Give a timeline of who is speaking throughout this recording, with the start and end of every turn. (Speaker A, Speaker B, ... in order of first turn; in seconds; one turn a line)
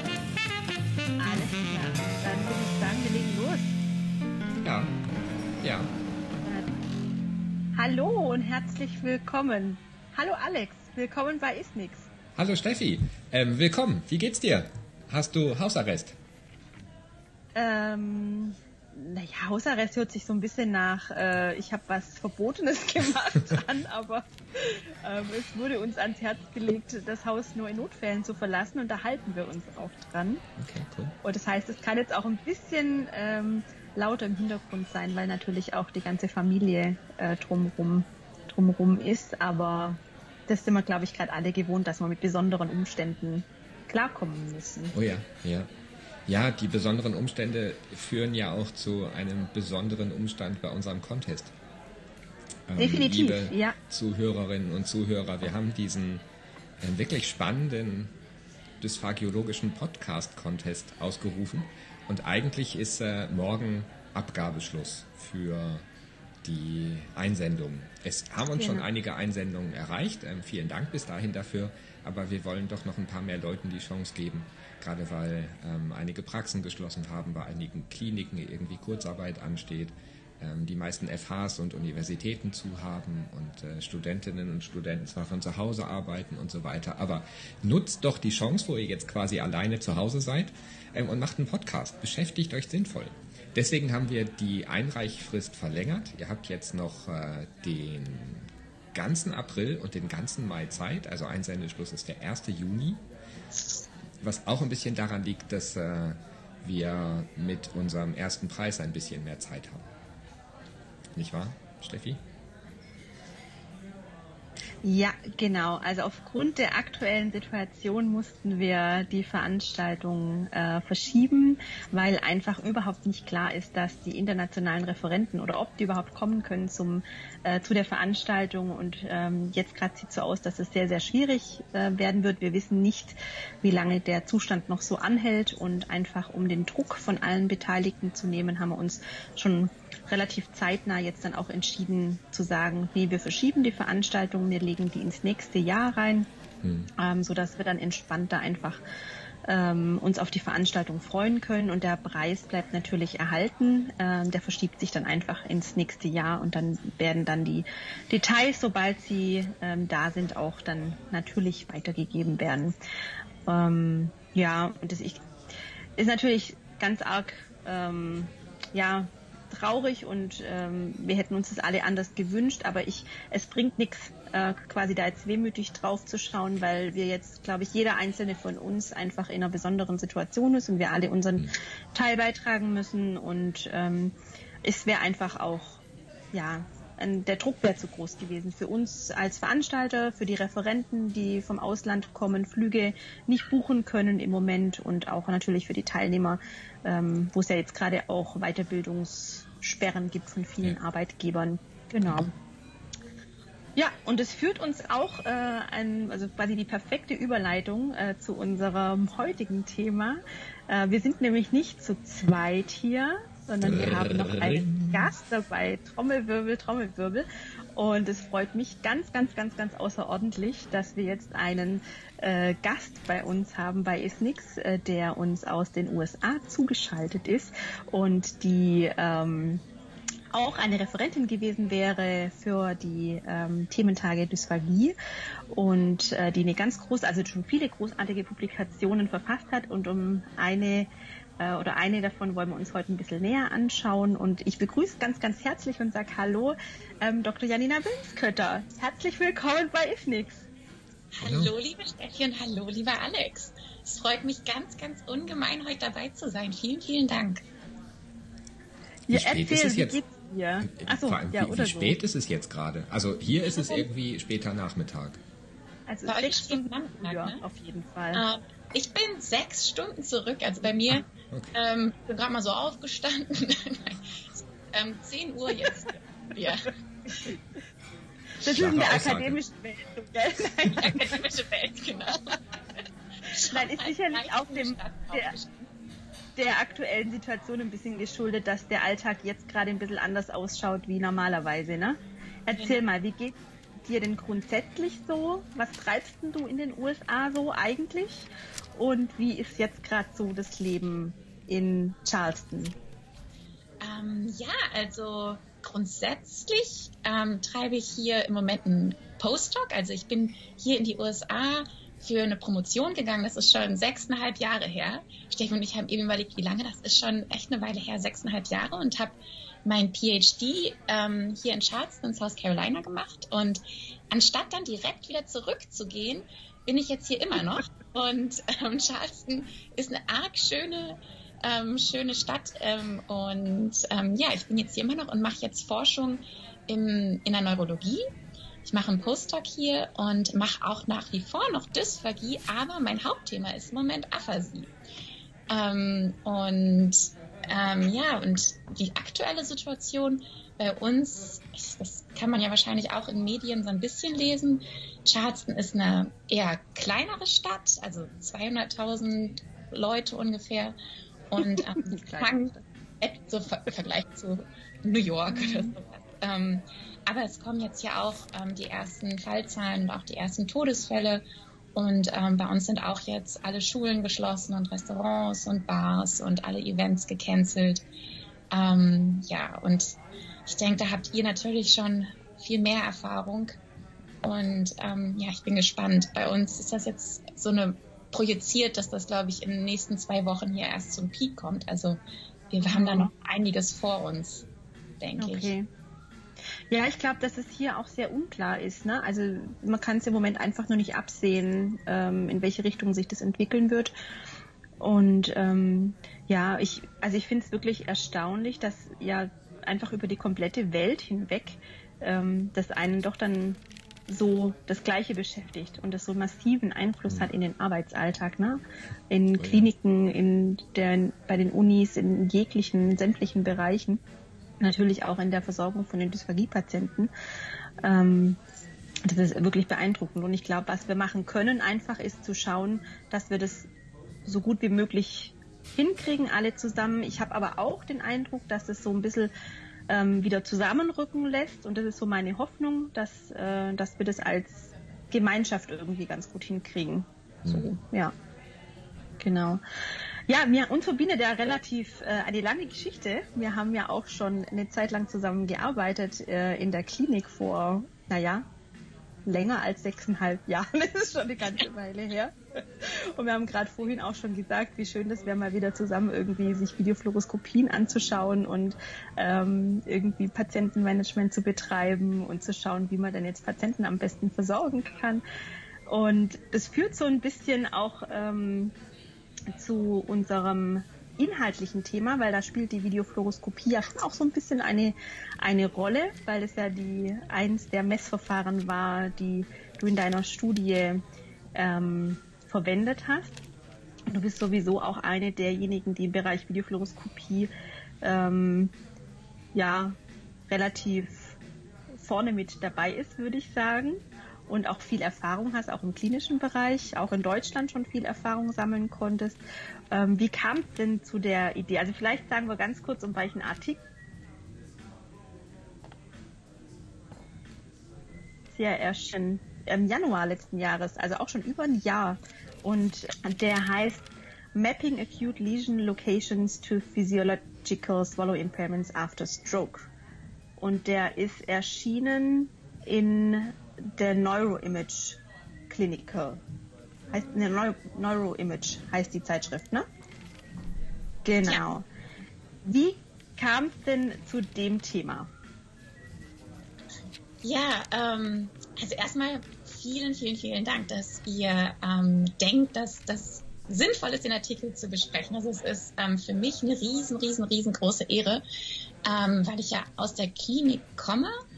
Speaker A: 1.2-3.7
Speaker B: 4.6-4.9
Speaker B: 5.6-5.9
Speaker A: 6.4-6.7
Speaker A: 7.8-12.1
Speaker B: 12.3-16.1
Speaker A: 17.6-30.4
Speaker B: 30.6-31.1
Speaker A: 31.2-44.9
Speaker B: 44.9-45.7
Speaker B: 46.3-51.5
Speaker B: 52.7-56.2
Speaker A: 52.8-53.7
Speaker B: 56.8-58.1
Speaker B: 58.8-65.8
Speaker B: 66.4-103.0
Speaker A: 68.5-68.8
Speaker B: 104.2-109.9
Speaker B: 111.1-112.2
Speaker A: 114.8-146.3
Speaker B: 146.6-146.9
Speaker A: 147.0-148.8
Speaker A: 149.4-162.7
Speaker A: 163.5-165.2
Speaker A: 166.0-185.8
Speaker A: 186.3-202.3
Speaker A: 203.8-229.6
Speaker B: 213.6-215.1
Speaker A: 230.3-234.9
Speaker A: 235.5-250.4
Speaker C: 251.2-257.4
Speaker B: 251.2-251.5
Speaker A: 259.1-262.0
Speaker B: 259.1-260.1
Speaker B: 260.6-265.2
Speaker C: 263.4-263.9
Speaker A: 265.9-268.2
Speaker C: 266.1-267.4
Speaker C: 268.1-276.7
Speaker B: 271.3-271.6
Speaker A: 278.4-281.1
Speaker B: 278.4-279.4
Speaker C: 280.9-282.4
Speaker C: 283.3-285.7
Speaker A: 283.5-285.3
Speaker A: 286.4-302.7
Speaker C: 292.6-292.8
Speaker C: 303.8-338.0
Speaker C: 338.6-344.7
Speaker C: 345.5-360.7
Speaker C: 361.3-371.2
Speaker A: 361.4-362.4
Speaker A: 365.3-365.8
Speaker C: 371.7-377.8
Speaker C: 378.5-383.6
Speaker C: 384.2-394.4
Speaker A: 392.7-393.1
Speaker C: 395.0-395.5
Speaker A: 395.2-395.7
Speaker A: 396.7-403.9
Speaker A: 404.8-424.0
Speaker B: 419.3-419.7
Speaker A: 424.6-427.1
Speaker A: 427.8-428.4
Speaker A: 429.1-433.7
Speaker A: 434.2-439.3
Speaker A: 439.9-448.1
Speaker B: 447.4-447.7
Speaker A: 449.2-449.6
Speaker A: 450.3-458.5
Speaker A: 459.2-462.3
Speaker A: 462.9-475.2
Speaker A: 475.9-478.7
Speaker A: 479.5-491.0
Speaker A: 491.6-493.4
Speaker A: 494.1-497.5
Speaker A: 498.0-498.7
Speaker A: 499.5-500.0
Speaker A: 500.5-501.4
Speaker A: 501.9-509.4
Speaker A: 509.9-513.8
Speaker A: 518.5-529.9
Speaker A: 530.6-536.4
Speaker A: 537.1-539.8
Speaker A: 541.2-541.9
Speaker A: 542.6-545.3
Speaker C: 547.4-558.4
Speaker C: 559.0-561.3